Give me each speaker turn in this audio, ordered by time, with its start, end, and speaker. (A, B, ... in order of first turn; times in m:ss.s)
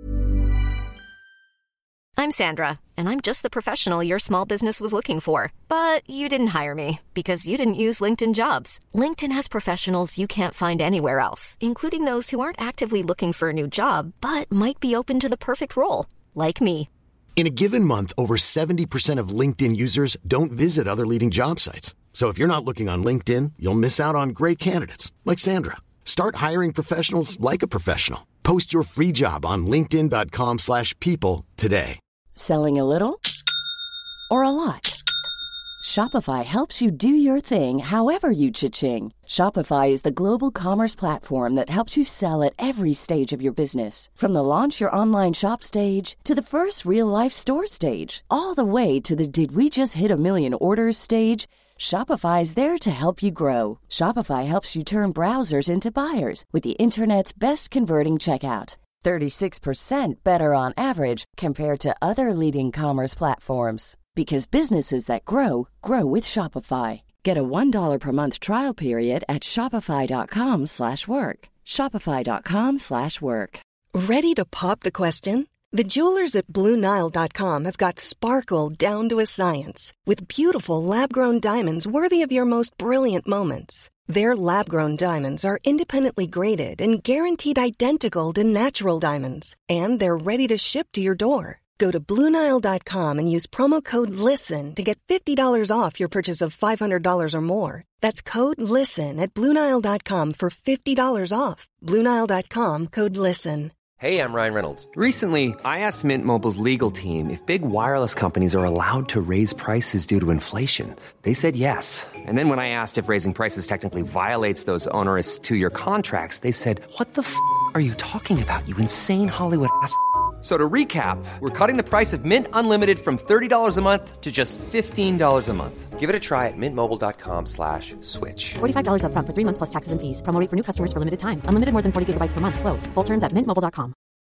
0:02.2-0:16.9 A
0:17.4-0:32.0 B
0:32.4-0:33.2 C
0:34.3-0:35.0 C
0:35.8-1:13.6 C
1:13.9-1:43.7 D
1:44.0-2:08.6 E
2:08.6-2:13.9 F